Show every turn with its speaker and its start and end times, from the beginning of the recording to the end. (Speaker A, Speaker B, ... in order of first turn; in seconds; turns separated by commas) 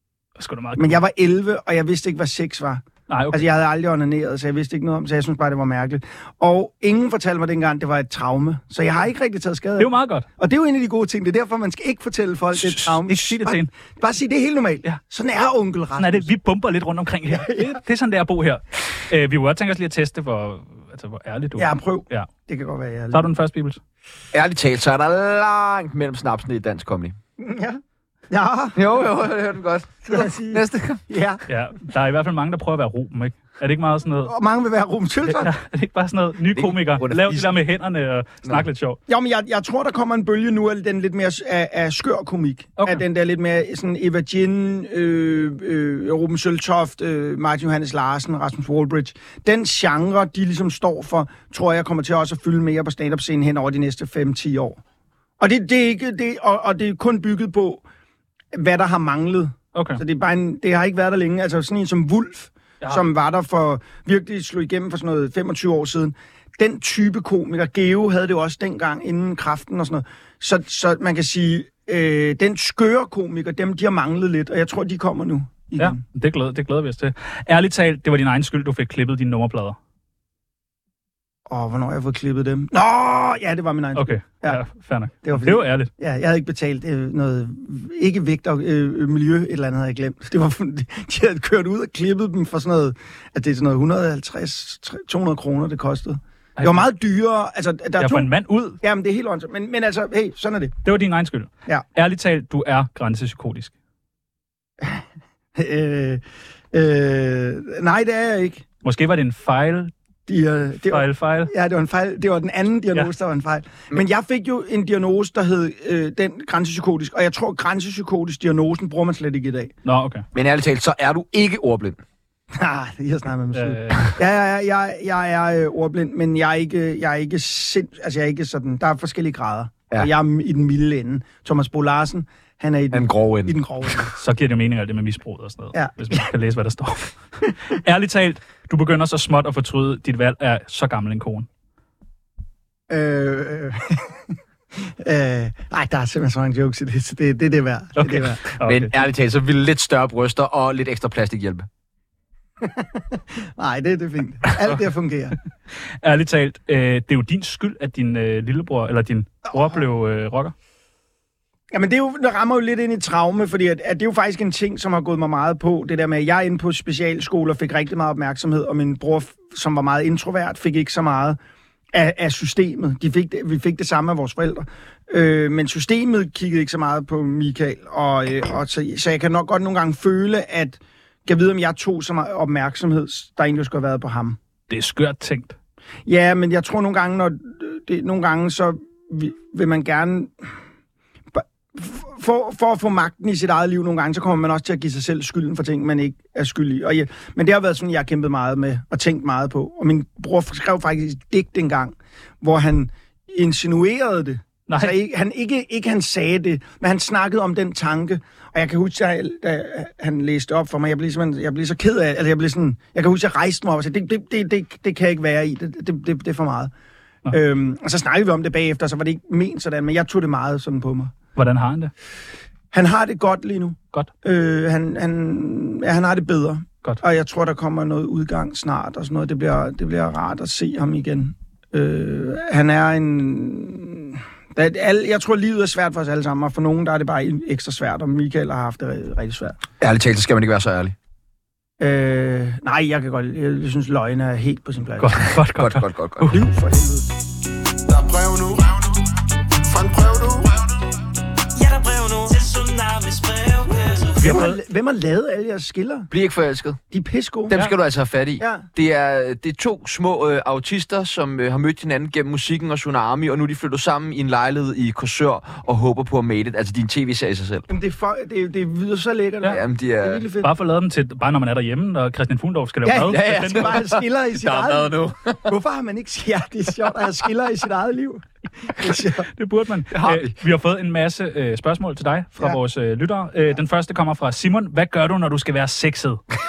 Speaker A: 0.4-1.0, Speaker B: 0.8-16.3, Speaker A: 3.1-3.4, Speaker A: 9.8-10.3, Speaker A: 12.6-13.7, Speaker A: 16.0-22.3, Speaker B: 17.3-17.8, Speaker B: 21.6-23.3, Speaker A: 23.1-23.8, Speaker C: 24.3-27.2, Speaker B: 27.4-28.8, Speaker C: 28.8-31.0, Speaker B: 30.1-31.4, Speaker A: 31.5-34.3, Speaker B: 34.2-35.5, Speaker A: 35.3-39.0, Speaker C: 36.5-37.5, Speaker B: 39.1-54.8, Speaker A: 42.8-43.0, Speaker B: 55.4-57.8, Speaker B: 58.5-76.0, Speaker A: 59.7-60.0, Speaker A: 75.8-79.8, Speaker B: 81.5-84.6, Speaker A: 84.0-85.9, Speaker B: 85.2-98.3, Speaker A: 96.6-96.9, Speaker A: 98.0-98.8, Speaker B: 98.8-100.7, Speaker A: 100.8-103.7, Speaker B: 105.5-106.2, Speaker B: 106.7-108.7, Speaker A: 108.8-109.9, Speaker B: 110.3-119.7, Speaker A: 110.9-111.5, Speaker A: 119.8-120.2, Speaker C: 120.3-122.0, Speaker B: 122.5-134.2, Speaker A: 123.5-124.1, Speaker C: 132.9-134.0, Speaker A: 134.2-141.5, Speaker B: 135.7-136.3, Speaker B: 142.9-144.2, Speaker B: 144.8-148.4, Speaker A: 148.0-148.9, Speaker C: 148.6-151.7, Speaker B: 152.6-155.4, Speaker A: 156.0-160.5, Speaker B: 159.5-159.8, Speaker B: 161.7-171.4, Speaker B: 171.9-184.4, Speaker A: 184.7-185.6, Speaker B: 186.1-190.5, Speaker B: 191.3-216.7, Speaker A: 204.7-204.9, Speaker B: 217.3-221.1, Speaker A: 221.4-221.9, Speaker B: 222.7-239.6, Speaker C: 239.8-240.9, Speaker B: 241.8-245.3, Speaker A: 245.0-246.4, Speaker C: 245.2-246.3, Speaker B: 246.3-247.1, Speaker D: 247.9-249.0, Speaker D: 249.6-250.6, Speaker E: 251.6-254.5, Speaker A: 254.2-254.6, Speaker B: 254.2-256.1, Speaker C: 256.1-256.8, Speaker B: 256.9-257.6, Speaker C: 257.5-267.6, Speaker B: 258.4-258.7, Speaker B: 267.7-270.5, Speaker C: 269.5-270.3, Speaker A: 270.4-273.8, Speaker B: 272.8-279.3, Speaker C: 273.1-275.6, Speaker A: 279.3-286.2, Speaker C: 279.9-280.4